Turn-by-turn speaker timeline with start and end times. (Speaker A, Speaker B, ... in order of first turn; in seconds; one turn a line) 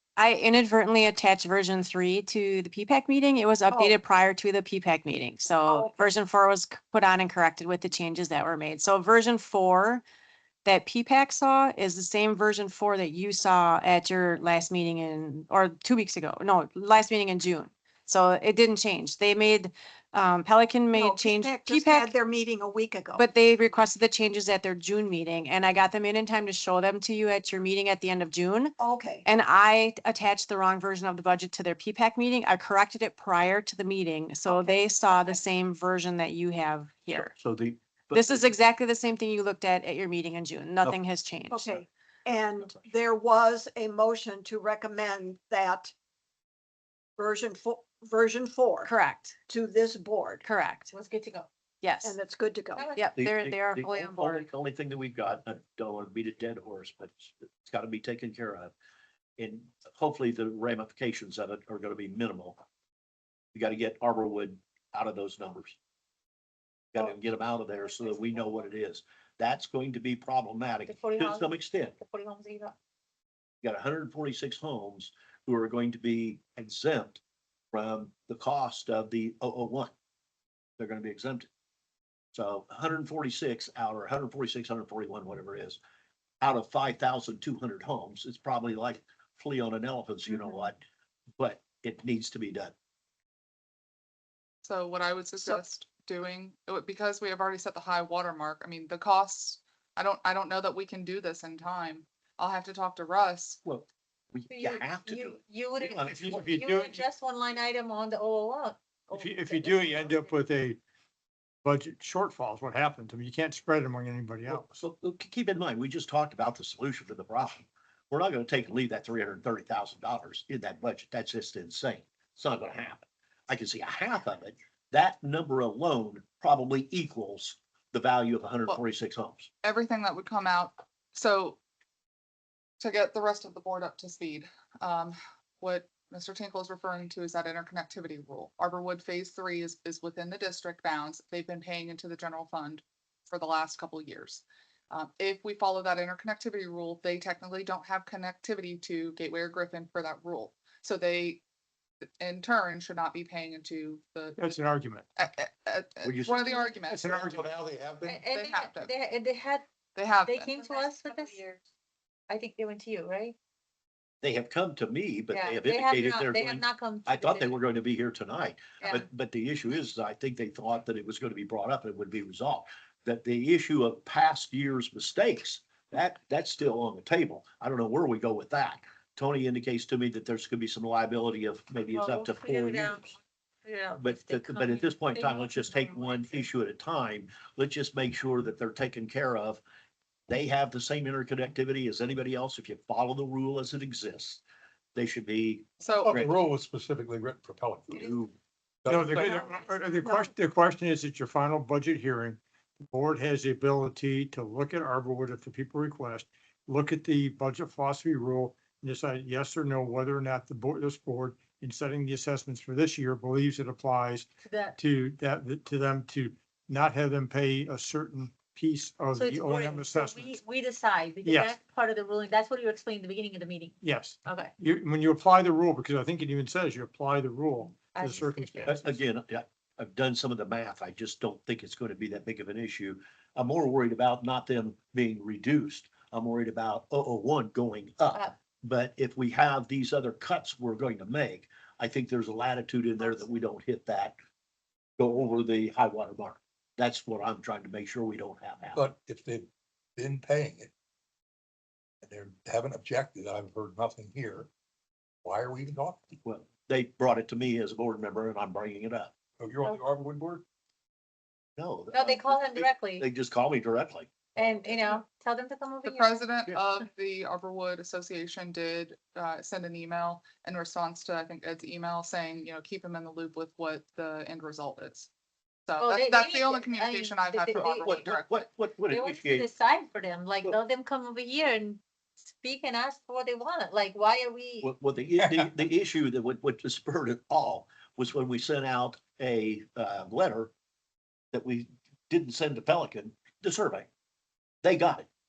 Speaker A: 0.2-10.0
Speaker B: 3.7-4.0
Speaker B: 5.7-6.0
Speaker A: 10.6-22.1
Speaker B: 20.9-23.3
Speaker A: 23.1-28.7
Speaker B: 28.8-29.2
Speaker A: 29.2-37.3
Speaker B: 34.5-35.3
Speaker C: 37.1-38.5
Speaker A: 38.1-41.7
Speaker B: 41.5-45.9
Speaker B: 47.2-48.9
Speaker A: 48.8-49.4
Speaker B: 49.5-50.4
Speaker A: 50.4-50.9
Speaker D: 50.9-51.5
Speaker A: 51.8-52.2
Speaker B: 52.0-52.9
Speaker D: 52.8-53.1
Speaker A: 53.0-54.5
Speaker C: 53.1-58.7
Speaker C: 59.4-62.6
Speaker C: 63.5-65.8
Speaker C: 66.9-71.9
Speaker D: 67.0-68.7
Speaker D: 70.8-72.7
Speaker C: 73.6-77.2
Speaker C: 77.7-79.9
Speaker C: 80.8-81.5
Speaker C: 82.3-85.8
Speaker C: 86.4-90.8
Speaker C: 91.4-92.7
Speaker E: 94.6-103.6
Speaker C: 103.6-106.6
Speaker D: 104.5-110.3
Speaker F: 106.2-107.0
Speaker F: 109.1-110.8
Speaker F: 111.6-114.6
Speaker C: 114.5-129.5
Speaker E: 129.6-131.6
Speaker E: 132.8-151.4
Speaker E: 152.2-154.4
Speaker F: 154.4-155.1
Speaker E: 155.2-157.4
Speaker C: 156.0-156.7
Speaker F: 156.8-158.2
Speaker D: 158.0-159.6
Speaker E: 158.3-158.9
Speaker E: 159.9-160.7
Speaker D: 160.2-161.6
Speaker D: 162.3-163.3
Speaker C: 164.2-183.1
Speaker D: 165.3-167.6
Speaker D: 181.9-183.1
Speaker D: 183.6-186.4
Speaker C: 184.0-189.6
Speaker C: 190.3-194.4
Speaker C: 194.9-196.3
Speaker E: 195.8-196.2
Speaker G: 196.0-198.1
Speaker C: 197.9-198.3
Speaker G: 198.8-199.6
Speaker F: 198.9-220.3
Speaker B: 200.0-200.3
Speaker D: 214.4-214.8
Speaker D: 219.1-224.5
Speaker F: 221.2-221.5
Speaker F: 223.8-228.8
Speaker D: 227.9-229.0
Speaker C: 228.7-244.2
Speaker C: 245.0-248.9
Speaker G: 248.7-250.7
Speaker G: 252.0-254.5
Speaker G: 255.2-256.1
Speaker C: 256.2-259.1
Speaker G: 259.4-260.4
Speaker C: 261.6-264.4
Speaker D: 261.9-263.1
Speaker D: 264.4-266.2
Speaker E: 265.8-275.1
Speaker E: 275.7-278.4
Speaker D: 275.8-278.1
Speaker C: 277.5-279.5
Speaker D: 278.9-284.7
Speaker C: 284.6-290.5
Speaker C: 291.3-293.9
Speaker C: 294.6-295.1